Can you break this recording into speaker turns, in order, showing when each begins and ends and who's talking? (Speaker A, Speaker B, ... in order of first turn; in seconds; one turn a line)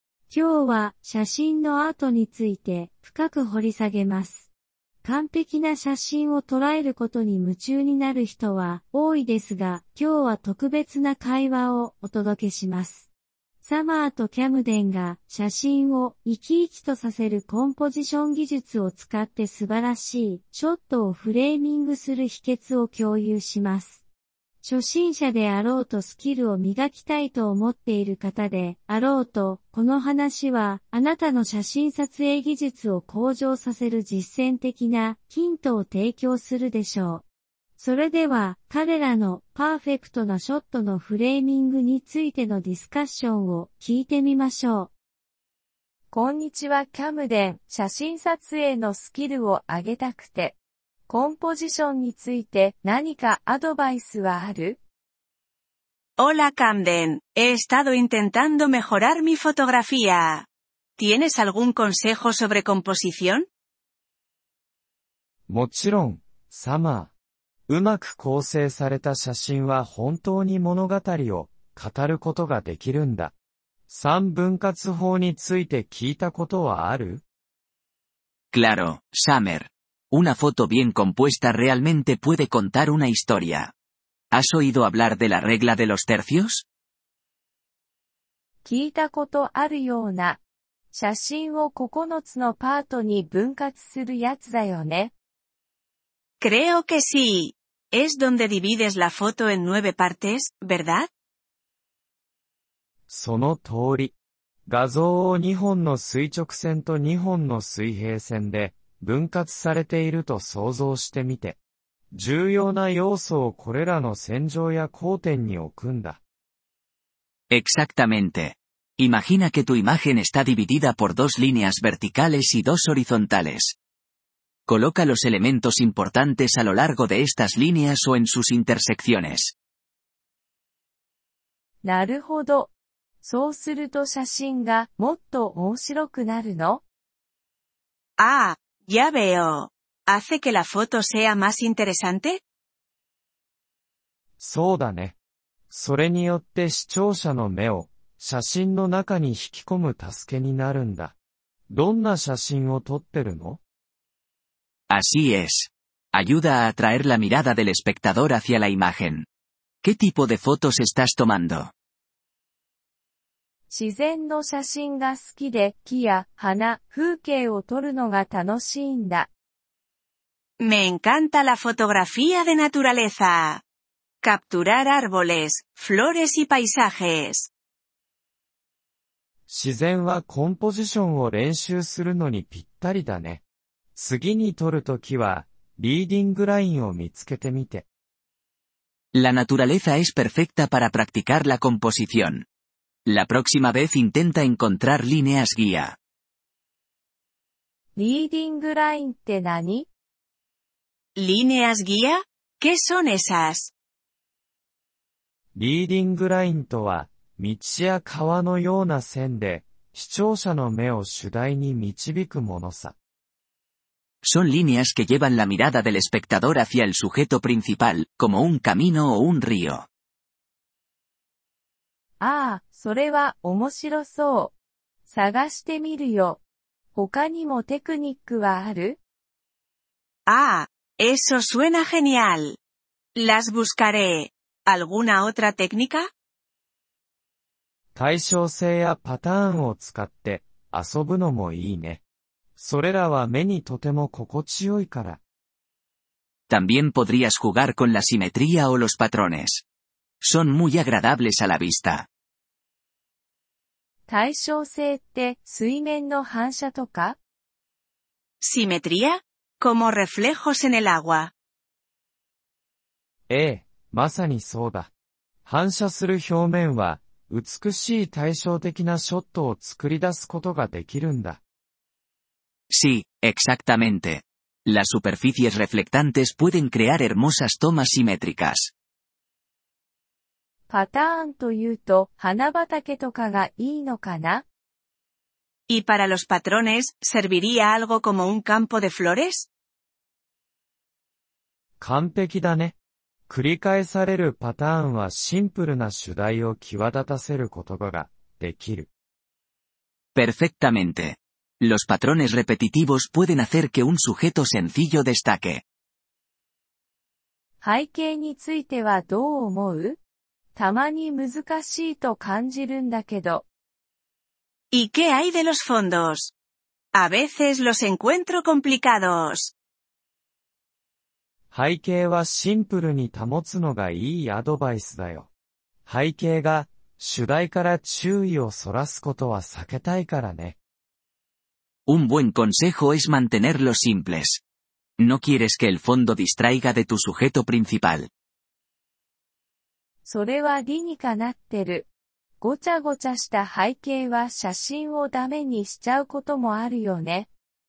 Speaker A: 0.3-4.5
Speaker A: 5.0-13.1
Speaker A: 13.6-24.0
Speaker A: 24.6-37.2
Speaker A: 37.8-44.9
Speaker B: 46.1-50.6
Speaker B: 51.1-54.8
Speaker C: 56.2-60.5
Speaker C: 61.0-63.5
Speaker D: 65.5-67.1
Speaker D: 67.7-73.3
Speaker D: 73.9-77.2
Speaker E: 78.5-83.7
Speaker E: 84.3-86.7
Speaker B: 88.7-90.4
Speaker B: 90.9-95.1
Speaker C: 96.4-101.1
Speaker D: 103.1-104.2
Speaker D: 104.7-111.6
Speaker D: 112.1-116.2
Speaker E: 117.5-123.8
Speaker E: 124.7-129.6
Speaker B: 131.8-136.8
Speaker C: 138.2-142.4
Speaker D: 144.4-145.2
Speaker D: 145.7-151.2
Speaker D: 151.7-153.6
Speaker E: 154.9-159.3
Speaker E: 159.8-161.7
Speaker B: 163.7-169.3
Speaker C: 170.6-173.6
Speaker C: 174.2-177.5
Speaker D: 179.5-183.4
Speaker D: 183.9-187.9
Speaker E: 189.1-192.5
Speaker E: 193.1-196.0
Speaker B: 198.0-199.9
Speaker C: 201.2-203.7
Speaker D: 205.6-212.9
Speaker E: 214.2-219.9
Speaker B: 222.2-224.5
Speaker B: 225.1-226.4
Speaker B: 226.9-229.0
Speaker C: 230.3-232.6
Speaker C: 233.2-236.1
Speaker D: 237.9-242.0
Speaker D: 242.6-245.2
Speaker E: 246.5-249.6
Speaker E: 250.2-252.1
Speaker B: 254.1-257.2
Speaker C: 258.4-261.3
Speaker D: 263.3-264.9
Speaker D: 265.5-271.4
Speaker E: 272.7-278.7
Speaker B: 280.7-284.4
Speaker C: 285.7-289.5
Speaker D: 291.8-292.8
Speaker D: 293.3-298.9
Speaker E: 300.1-305.6
Speaker B: 307.6-310.0
Speaker B: 310.6-313.4
Speaker C: 314.7-316.3
Speaker C: 316.9-319.5
Speaker D: 321.5-325.3
Speaker D: 325.9-330.6
Speaker E: 331.9-334.4
Speaker E: 335.0-338.1
Speaker B: 340.1-341.9
Speaker B: 342.4-347.3